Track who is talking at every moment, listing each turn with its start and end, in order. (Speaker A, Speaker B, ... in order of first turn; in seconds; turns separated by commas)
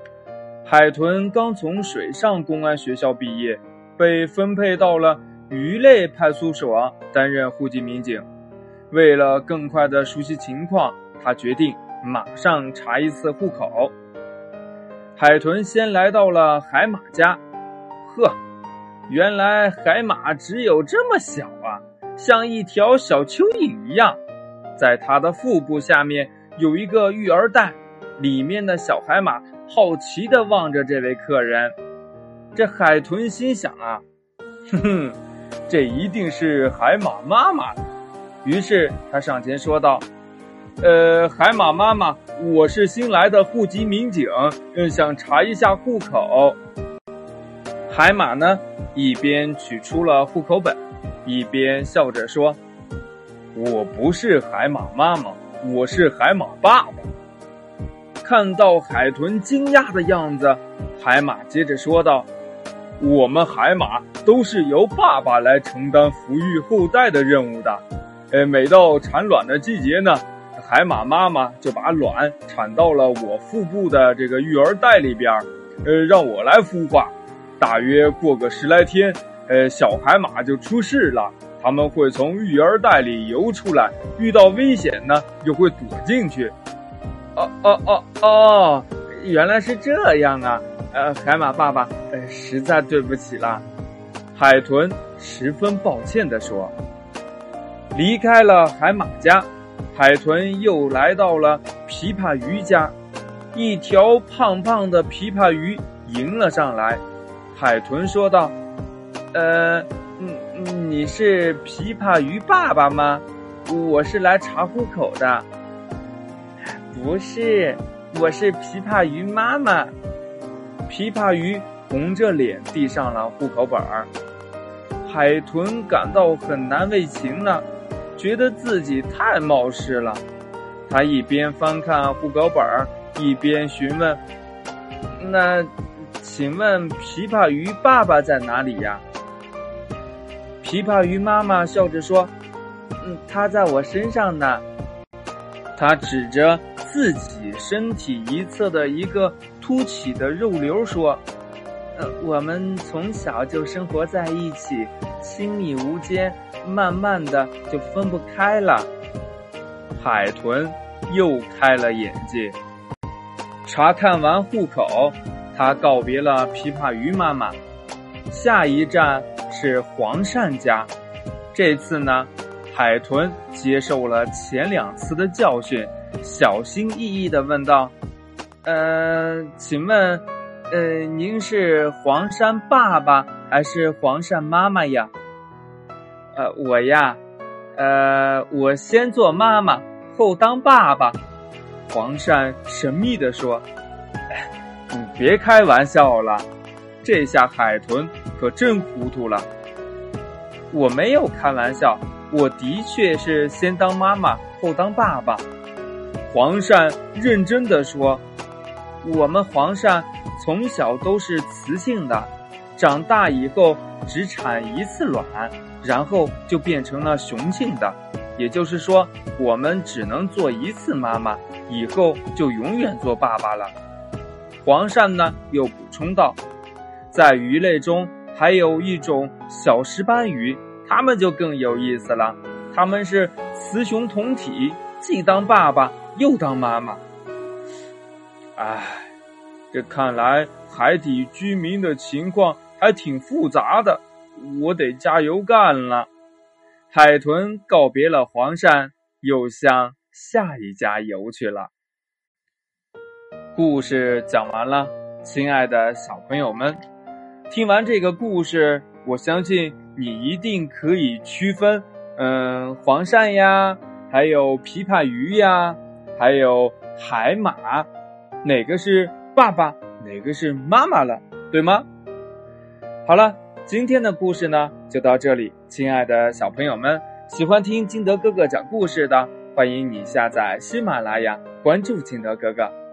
Speaker A: 0.7-8.2, Speaker A: 8.9-13.9, Speaker A: 15.2-17.4, Speaker A: 18.0-18.4, Speaker A: 19.1-24.2, Speaker A: 24.8-31.8, Speaker A: 32.5-34.0, Speaker A: 34.7-35.2, Speaker A: 35.7-37.8, Speaker A: 38.4-40.1, Speaker A: 40.8-46.6, Speaker A: 47.9-52.6, Speaker A: 53.5-57.1, Speaker A: 58.2-62.3, Speaker A: 63.0-86.5, Speaker A: 87.3-93.6, Speaker A: 94.3-96.7, Speaker A: 97.9-102.9, Speaker A: 103.5-107.0, Speaker A: 107.5-108.5, Speaker A: 109.3-115.5, Speaker A: 116.6-119.9, Speaker A: 120.9-124.1, Speaker A: 125.0-127.7, Speaker A: 128.2-130.2, Speaker A: 130.9-134.2, Speaker A: 135.2-139.0, Speaker A: 140.6-142.3, Speaker A: 143.0-144.6, Speaker A: 145.8-151.2, Speaker A: 151.9-158.9, Speaker A: 160.0-162.6, Speaker A: 163.7-167.6, Speaker A: 168.3-170.9, Speaker A: 171.5-177.9, Speaker A: 178.6-185.1, Speaker A: 186.3-187.2, Speaker A: 187.8-191.2, Speaker A: 191.9-193.7, Speaker A: 194.3-196.5, Speaker A: 197.0-199.5, Speaker A: 200.7-205.5, Speaker A: 206.3-208.2, Speaker A: 209.0-223.8, Speaker A: 224.6-226.4, Speaker A: 227.1-237.0, Speaker A: 238.6-239.1, Speaker A: 239.7-246.1, Speaker A: 246.9-251.7, Speaker A: 253.6-256.8, Speaker A: 257.5-267.9, Speaker A: 268.4-271.9, Speaker A: 273.1-282.7